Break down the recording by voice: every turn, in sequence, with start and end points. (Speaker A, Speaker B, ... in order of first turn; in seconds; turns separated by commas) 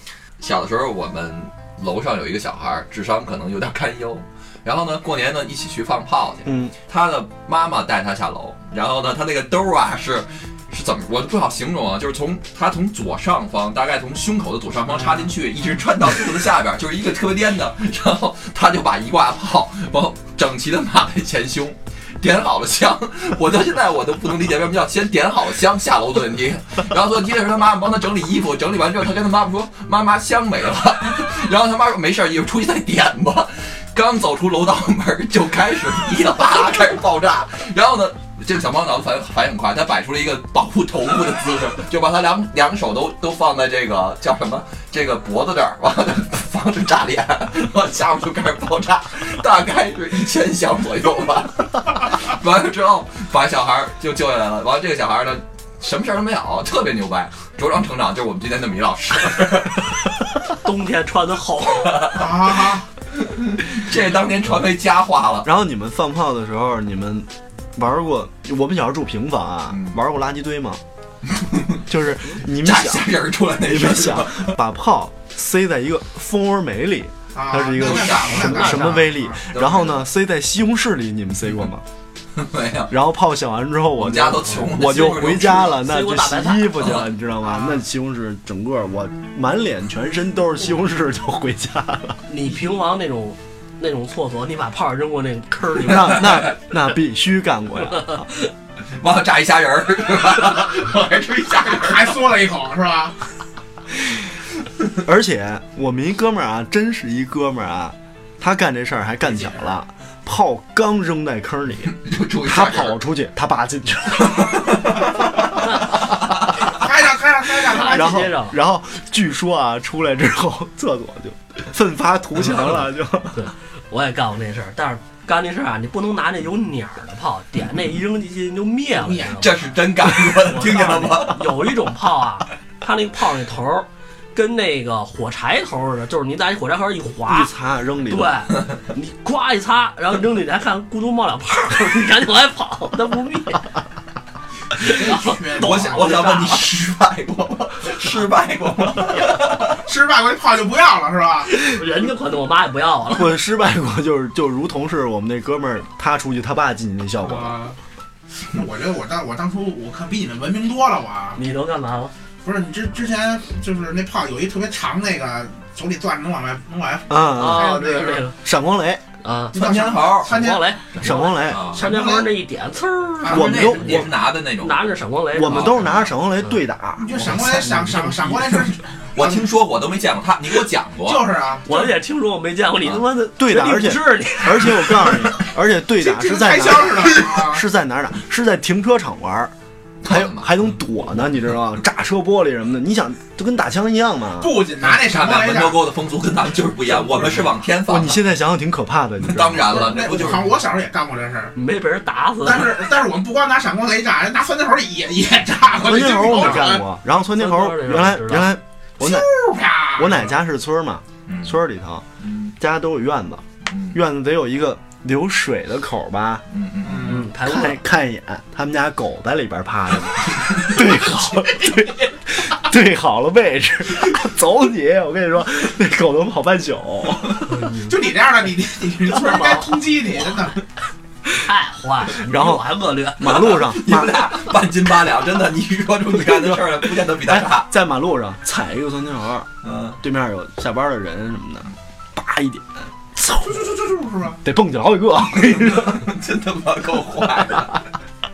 Speaker A: 0.4-59.8, Speaker B: 6.5-6.7, Speaker C: 15.0-15.2, Speaker D: 60.6-62.2, Speaker A: 61.8-65.5, Speaker C: 62.1-62.9, Speaker B: 65.5-70.8, Speaker A: 69.7-70.0, Speaker A: 71.3-71.8, Speaker B: 71.9-73.1, Speaker A: 72.5-74.5, Speaker B: 73.6-81.8, Speaker C: 77.3-79.4, Speaker A: 77.8-78.7, Speaker D: 78.4-79.1, Speaker A: 79.5-80.1, Speaker A: 82.3-82.9, Speaker B: 82.9-92.2, Speaker A: 84.0-85.8, Speaker D: 85.6-87.0, Speaker A: 86.8-87.1, Speaker C: 87.5-87.8, Speaker D: 92.3-96.5, Speaker B: 95.8-98.3, Speaker A: 96.2-96.5, Speaker A: 99.0-102.2, Speaker C: 101.6-103.2, Speaker B: 105.0-115.4, Speaker C: 109.3-109.6, Speaker A: 112.0-113.0, Speaker A: 114.5-115.1, Speaker D: 115.6-116.0, Speaker C: 116.7-118.3, Speaker D: 117.7-118.6, Speaker B: 117.8-123.4, Speaker D: 123.3-129.6, Speaker C: 129.0-129.5, Speaker A: 129.4-131.6, Speaker D: 130.4-137.5, Speaker B: 137.3-138.4, Speaker D: 138.1-143.7, Speaker D: 144.8-146.6, Speaker C: 144.8-146.6, Speaker A: 145.5-149.8, Speaker C: 149.7-151.5, Speaker D: 151.6-153.4, Speaker B: 153.1-157.6, Speaker C: 157.2-157.8, Speaker C: 158.5-161.4, Speaker D: 161.3-162.1, Speaker C: 162.4-168.3, Speaker B: 167.1-169.0, Speaker D: 167.4-168.4, Speaker D: 169.2-169.6, Speaker A: 169.5-170.3, Speaker C: 169.5-172.3, Speaker D: 170.2-176.6, Speaker B: 171.0-171.8, Speaker A: 171.4-171.8, Speaker A: 173.2-174.9, Speaker B: 173.3-174.1, Speaker B: 175.3-177.6, Speaker A: 175.4-176.1, Speaker C: 177.0-179.5, Speaker A: 179.1-181.3, Speaker C: 181.1-181.9, Speaker D: 181.7-185.3, Speaker B: 183.4-189.5, Speaker C: 186.0-187.7, Speaker A: 190.0-190.7, Speaker B: 190.0-194.7, Speaker C: 194.4-195.8, Speaker A: 194.8-198.2, Speaker B: 197.9-199.8, Speaker A: 199.2-200.6, Speaker C: 199.7-201.6, Speaker D: 201.6-202.8, Speaker C: 202.4-206.8, Speaker B: 205.8-209.3, Speaker D: 207.3-208.6, Speaker C: 209.0-210.3, Speaker B: 210.0-212.1, Speaker A: 211.3-211.6, Speaker A: 212.2-212.6, Speaker B: 212.6-216.4, Speaker A: 213.7-214.0, Speaker A: 216.5-217.2, Speaker C: 216.8-217.3, Speaker D: 217.0-217.8, Speaker B: 217.4-227.7, Speaker D: 227.5-228.0, Speaker C: 227.9-230.6, Speaker D: 229.2-229.9, Speaker D: 231.4-233.6, Speaker B: 232.2-232.7, Speaker B: 233.2-234.3, Speaker A: 233.2-237.7, Speaker B: 236.2-239.5, Speaker A: 239.6-240.0, Speaker B: 240.0-242.9, Speaker C: 243.3-244.4, Speaker B: 244.4-246.1, Speaker A: 245.3-247.8